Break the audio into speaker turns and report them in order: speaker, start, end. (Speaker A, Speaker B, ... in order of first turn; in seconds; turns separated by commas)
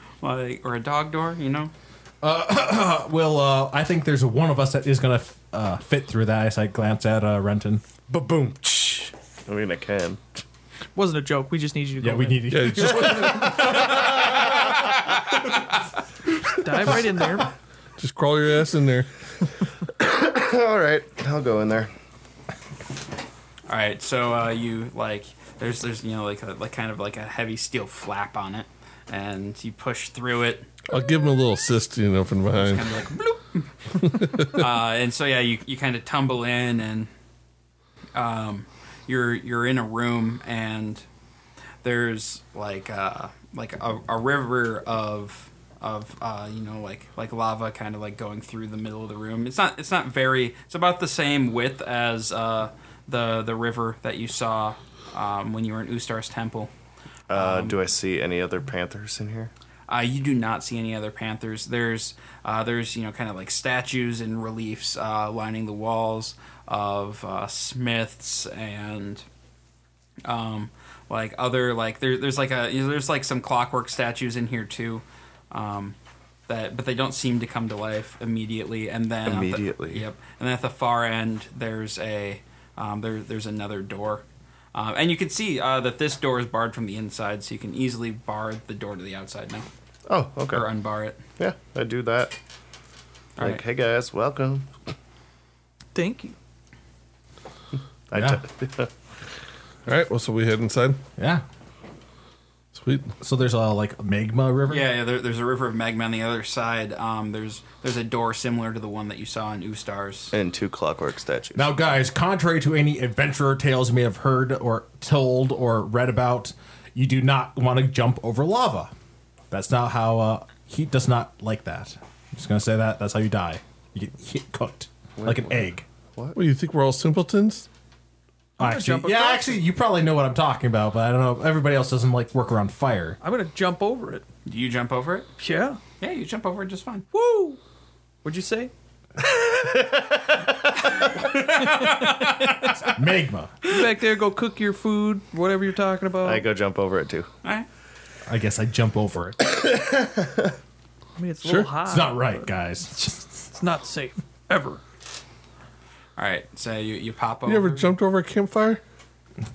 Speaker A: 0.2-1.7, Speaker B: 2.2-7.8, Speaker C: 8.1-10.4, Speaker D: 10.9-12.5, Speaker B: 12.0-14.3, Speaker E: 12.5-13.8, Speaker C: 13.8-14.9, Speaker D: 16.6-17.5, Speaker E: 18.0-19.5, Speaker C: 19.9-21.9, Speaker A: 23.7-30.7, Speaker E: 30.9-32.9, Speaker A: 32.5-37.1, Speaker E: 34.1-34.6, Speaker A: 38.1-41.0, Speaker A: 41.8-56.7, Speaker C: 57.3-59.5, Speaker A: 57.3-57.8, Speaker A: 59.9-69.2, Speaker A: 70.2-76.0, Speaker A: 76.5-89.7, Speaker C: 79.2-80.0, Speaker C: 90.1-90.7, Speaker A: 90.5-91.2, Speaker C: 91.4-92.3, Speaker A: 93.4-93.6, Speaker C: 93.4-94.7, Speaker D: 95.9-96.3, Speaker C: 98.1-98.9, Speaker B: 98.1-98.4, Speaker E: 99.8-101.0, Speaker B: 101.2-101.4, Speaker E: 102.7-103.1, Speaker B: 103.2-104.9, Speaker A: 104.7-110.3, Speaker C: 110.3-111.7, Speaker B: 111.5-118.9, Speaker B: 119.5-125.8, Speaker C: 125.2-126.4, Speaker E: 126.3-127.7, Speaker D: 128.6-129.6, Speaker B: 128.6-133.2, Speaker D: 133.2-134.2, Speaker A: 134.4-135.3, Speaker D: 135.4-135.8, Speaker A: 136.0-137.1, Speaker D: 137.1-137.6, Speaker D: 138.2-138.7, Speaker C: 139.4-140.1, Speaker A: 141.0-142.9, Speaker D: 141.9-142.3, Speaker B: 142.8-143.6, Speaker D: 143.6-146.4, Speaker C: 146.2-147.3, Speaker B: 148.3-149.4, Speaker C: 149.6-150.5, Speaker D: 151.2-154.8, Speaker E: 151.4-151.7, Speaker B: 151.8-152.9, Speaker A: 156.2-157.9, Speaker E: 157.4-158.8